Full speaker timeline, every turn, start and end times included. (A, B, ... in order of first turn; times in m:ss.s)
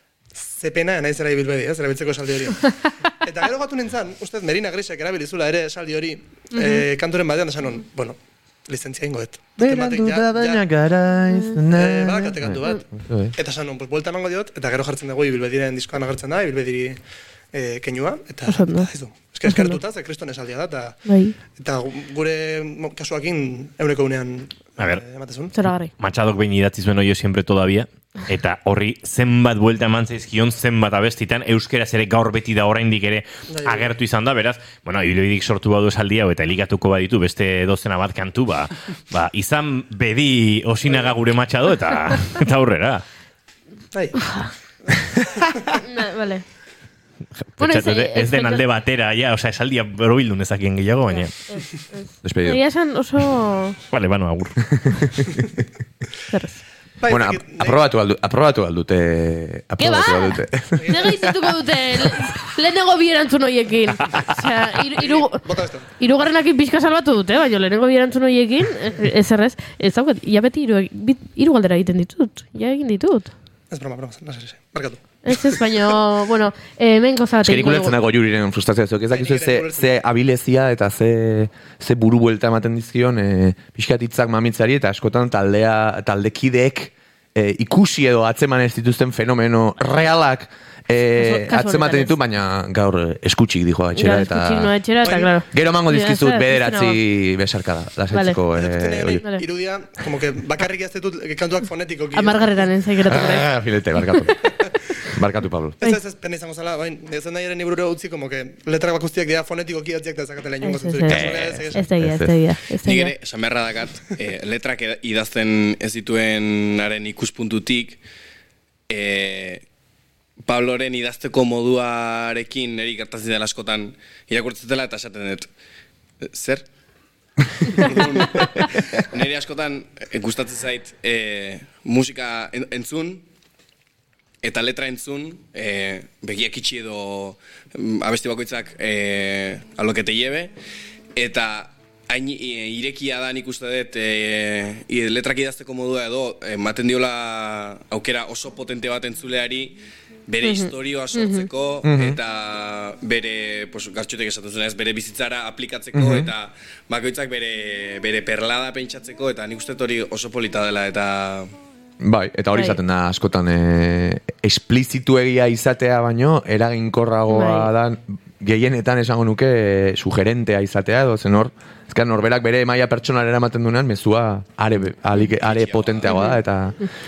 0:00.4-0:10.6 A
0:06.6-0:06.8 B
0:09.6-0:13.3 C
0:11.7-0:17.0 A
0:17.5-0:25.5 A
0:18.5-0:18.9 B
0:19.4-0:19.8 B
0:21.1-0:21.4 B
0:25.5-0:25.9 B
0:25.9-0:43.0 D
0:33.5-0:34.0 A
0:40.9-0:41.1 A
0:43.9-0:45.8 A
0:44.2-0:44.5 B
0:45.8-0:46.4 B
0:47.6-0:51.5 D
0:47.6-0:48.6 B
0:51.1-0:53.8 B
0:52.2-0:52.6 C
0:53.9-0:55.1 D
0:56.3-0:56.6 B
0:57.0-0:57.9 A
0:57.1-1:01.3 C
0:59.8-1:05.4 B
1:00.8-1:01.1 A
1:04.9-1:05.9 A
1:06.0-1:13.3 B
1:13.7-1:15.6 A
1:15.2-1:18.0 B
1:17.4-1:34.7 C
1:19.1-1:19.9 A
1:31.2-1:32.1 B
1:34.0-1:37.0 B
1:35.0-1:35.3 A
1:35.5-1:39.2 C
1:38.1-1:38.4 B
1:38.5-1:42.6 A
1:42.1-1:44.2 B
1:43.0-1:44.5 C
1:44.4-1:44.7 A
1:45.1-1:45.8 C
1:45.8-1:51.9 A
1:50.6-1:53.1 B
1:51.1-1:52.4 C
1:52.8-1:58.0 E
1:58.9-1:59.6 E
2:00.4-2:05.5 E
2:06.2-2:06.6 E
2:07.6-2:13.2 E
2:14.4-2:20.5 E
2:21.2-2:41.5 E
2:30.4-2:31.5 B
2:31.8-2:32.2 C
2:35.9-2:36.3 C
2:42.0-2:56.9 C
2:42.5-2:42.8 B
2:47.3-2:47.7 B
2:55.3-2:56.1 E
2:56.1-2:56.9 B